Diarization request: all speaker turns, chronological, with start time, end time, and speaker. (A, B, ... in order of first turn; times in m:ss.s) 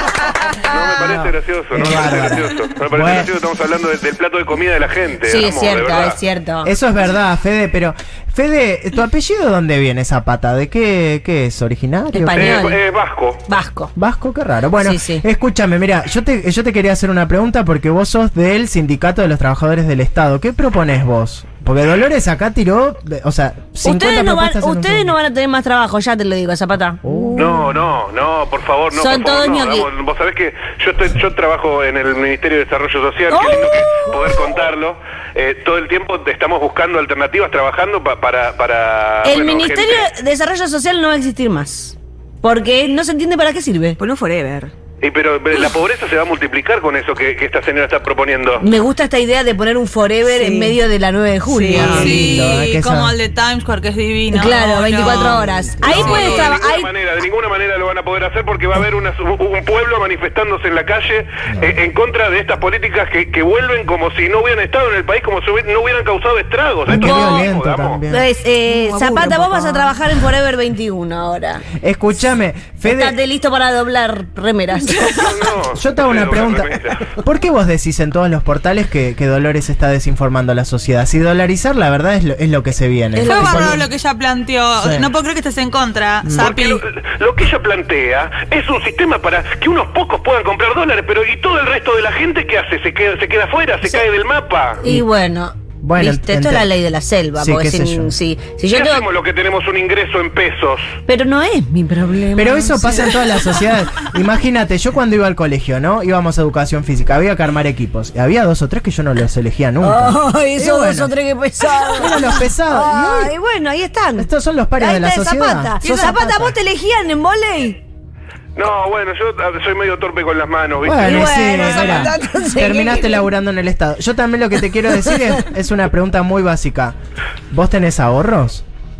0:00.6-0:06.2 A
0:01.0-0:03.3 B
0:05.2-0:06.7 C
0:06.6-0:12.7 B
0:12.1-0:12.8 C
0:12.4-0:13.4 A
0:13.5-0:13.9 C
0:14.0-0:25.1 B
0:14.8-0:15.2 C
0:23.8-0:27.6 C
0:27.0-0:27.6 B
0:27.4-0:40.1 A
0:28.9-0:29.9 C
0:33.3-0:34.4 C
0:39.2-0:44.0 C
0:44.0-0:44.7 D
0:45.0-0:48.6 A
0:48.6-0:52.3 C
0:50.3-0:50.8 D
0:51.4-0:52.2 D
0:51.7-0:53.2 B
0:51.8-0:56.6 E
0:54.3-0:56.9 C
0:55.8-1:08.0 A
1:01.5-1:01.7 B
1:06.8-1:08.2 B
1:06.9-1:07.5 C
1:08.1-1:11.6 C
1:08.7-1:09.9 D
1:11.8-1:13.2 B
1:12.8-1:15.2 C
1:15.0-1:17.0 A
1:15.7-1:23.8 B
1:23.1-1:23.8 C
1:23.2-1:26.8 E
1:24.8-1:25.1 B
1:26.3-1:34.8 A
1:34.8-1:39.1 C
1:35.8-1:36.7 B
1:37.4-1:38.1 B
1:38.7-1:40.8 A
1:41.1-1:43.5 C
1:42.4-1:51.1 B
1:49.8-1:57.8 C
1:52.0-1:53.3 B
1:54.2-1:56.5 B
1:58.6-2:01.3 A
2:00.8-2:07.0 B
2:01.0-2:03.2 C
2:05.1-2:05.4 C
2:07.5-2:08.6 B